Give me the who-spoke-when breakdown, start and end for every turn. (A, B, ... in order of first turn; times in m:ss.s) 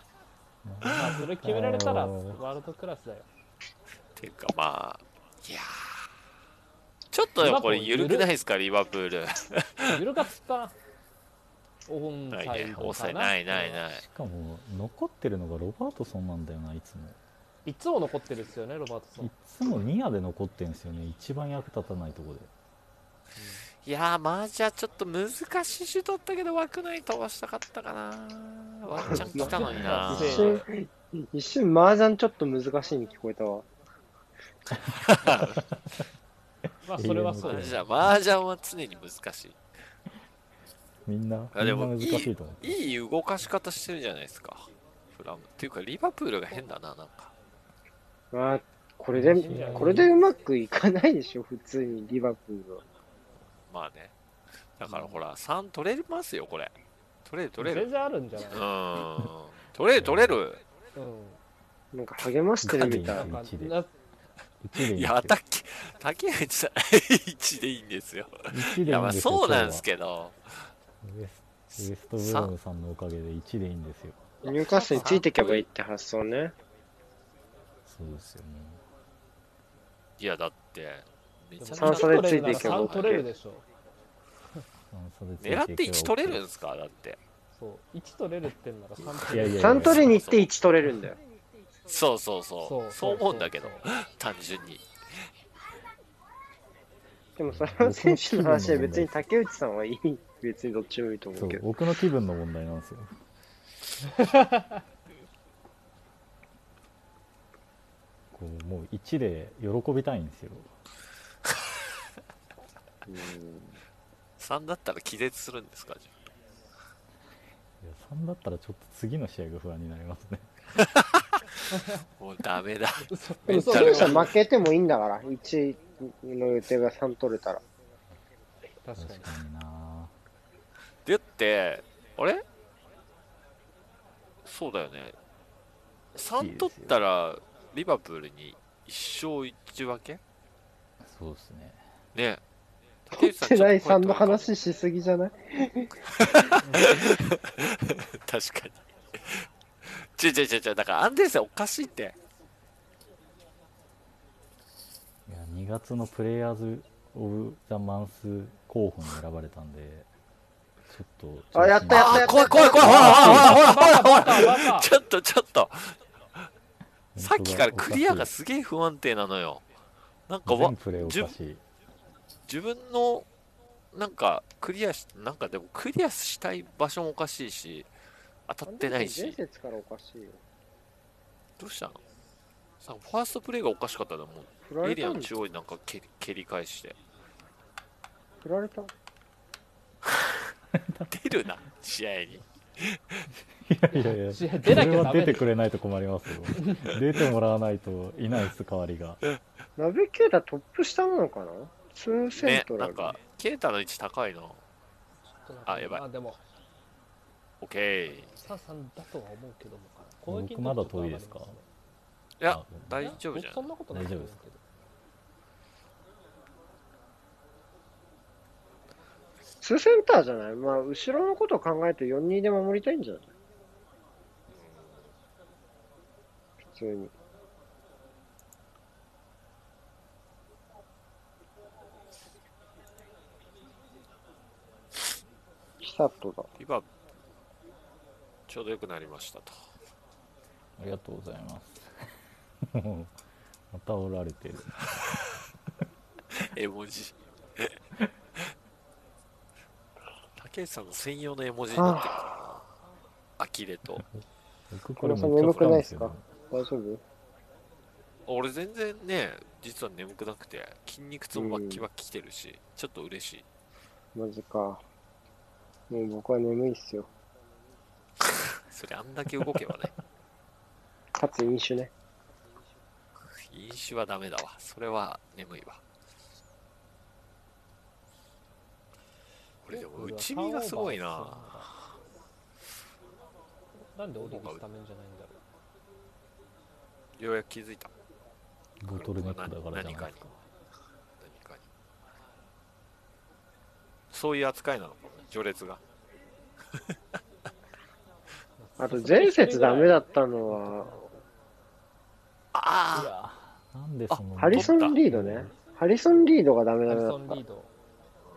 0:00.6-0:02.4 A
0:00.9-0:03.3 B
0:04.2-0:06.1 C
0:07.1-0:10.0 C
0:07.4-0:08.3 B
0:09.9-0:10.8 B
0:11.8-0:13.8 B
0:12.3-0:14.0 C
0:13.9-0:17.2 A
0:17.6-0:19.3 B
0:19.2-0:22.5 A
0:23.4-0:23.6 B
0:23.8-0:30.5 C
0:29.0-0:30.4 A
0:29.0-0:33.6 D
0:29.3-0:30.6 B
0:34.9-0:35.6 C
0:35.3-0:35.8 A
0:36.8-0:37.8 B
0:36.9-0:38.2 A
0:37.4-0:39.6 C
0:41.0-0:42.9 A
0:41.5-0:47.3 C
0:48.3-0:52.8 D
0:49.1-0:50.1 A
0:49.3-0:50.1 B
0:53.7-0:54.1 C
0:54.8-0:56.7 C
0:54.9-0:55.2 B
0:57.2-0:57.9 C
0:57.6-0:58.7 B
0:58.5-1:00.6 C
1:00.0-1:00.4 A
1:00.9-1:01.4 B
1:01.9-1:03.3 D
1:02.6-1:03.8 A
1:03.0-1:03.9 B
1:04.6-1:05.4 A
1:04.7-1:10.7 C
1:08.5-1:09.8 A
1:11.0-1:14.2 A
1:11.8-1:12.5 C
1:14.4-1:16.5 D
1:14.5-1:15.2 B
1:14.8-1:15.6 C
1:17.8-1:18.8 A
1:20.2-1:23.3 C
1:21.6-1:23.6 B
1:21.8-1:23.3 D
1:24.9-1:26.4 A
1:25.4-1:27.2 C
1:27.5-1:30.0 B
1:29.0-1:30.2 A
1:29.5-1:31.2 D
1:29.8-1:30.5 C
1:31.9-1:34.8 C
1:32.6-1:33.9 B
1:37.4-1:41.6 D
1:37.5-1:39.2 A
1:41.3-1:43.2 A
1:44.2-1:44.8 B
1:48.3-1:50.7 A
1:53.0-1:53.8 D
1:54.4-1:56.2 C
1:57.8-2:00.5 A
2:00.8-2:01.4 C
2:01.7-2:02.0 B
2:02.2-2:04.3 C
2:03.1-2:04.3 B
2:03.5-2:07.6 D
2:08.8-2:09.3 B
2:09.0-2:10.1 A
2:11.0-2:12.4 C
2:14.4-2:15.2 C
2:16.1-2:20.2 C
2:16.4-2:17.0 A
2:21.0-2:21.9 A
2:22.1-2:22.4 C
2:23.0-2:24.5 C
2:23.1-2:26.5 D
2:26.0-2:32.2 C
2:26.6-2:27.0 B
2:35.3-2:40.1 A
2:40.8-2:43.6 A
2:41.5-2:43.5 D
2:41.8-2:46.0 C
2:42.8-2:44.9 B
2:47.2-2:48.3 A
2:47.2-2:49.6 C
2:50.3-2:51.3 C
2:50.4-2:51.6 A
2:52.5-2:53.3 C
2:53.9-2:57.9 C
2:58.5-2:59.4 C
2:58.6-3:00.4 D
3:01.6-3:02.0 C
3:02.8-3:07.0 C
3:04.7-3:05.3 D
3:08.4-3:08.9 D
3:10.7-3:11.1 A
3:11.1-3:13.3 C
3:13.3-3:19.2 A
3:13.9-3:15.5 B
3:19.8-3:23.2 D
3:22.3-3:24.6 C
3:25.3-3:26.4 B
3:25.6-3:26.0 C
3:27.6-3:28.3 C
3:28.4-3:31.6 B
3:30.3-3:31.6 A
3:32.4-3:33.7 C
3:32.4-3:33.2 A
3:33.0-3:34.6 B
3:33.9-3:34.4 A
3:39.6-3:43.3 D
3:44.5-3:45.1 C
3:46.6-3:47.1 D
3:55.8-3:56.5 D
3:56.6-3:56.8 C
3:58.5-3:59.5 C
4:00.8-4:03.1 A
4:03.7-4:05.1 A
4:06.3-4:07.8 C
4:10.4-4:12.7 C
4:11.7-4:12.2 D
4:13.4-4:14.0 C
4:14.7-4:16.2 A
4:15.0-4:17.0 D
4:18.3-4:23.4 C
4:21.3-4:21.8 D
4:24.1-4:24.8 D
4:25.9-4:27.1 D
4:28.2-4:29.9 C
4:31.2-4:31.9 D
4:33.2-4:35.8 C
4:39.6-4:41.9 C
4:39.7-4:41.7 B
4:43.9-4:45.4 B
4:44.2-4:44.6 C
4:47.2-4:47.9 C
4:48.8-4:50.3 A
4:48.9-4:50.3 C
4:51.2-4:51.6 C
4:54.1-4:55.8 C
4:58.6-5:01.1 B
4:58.8-5:01.0 D
5:02.5-5:03.1 C
5:02.9-5:05.5 A
5:04.1-5:05.0 C
5:04.4-5:07.4 D
5:06.9-5:07.7 B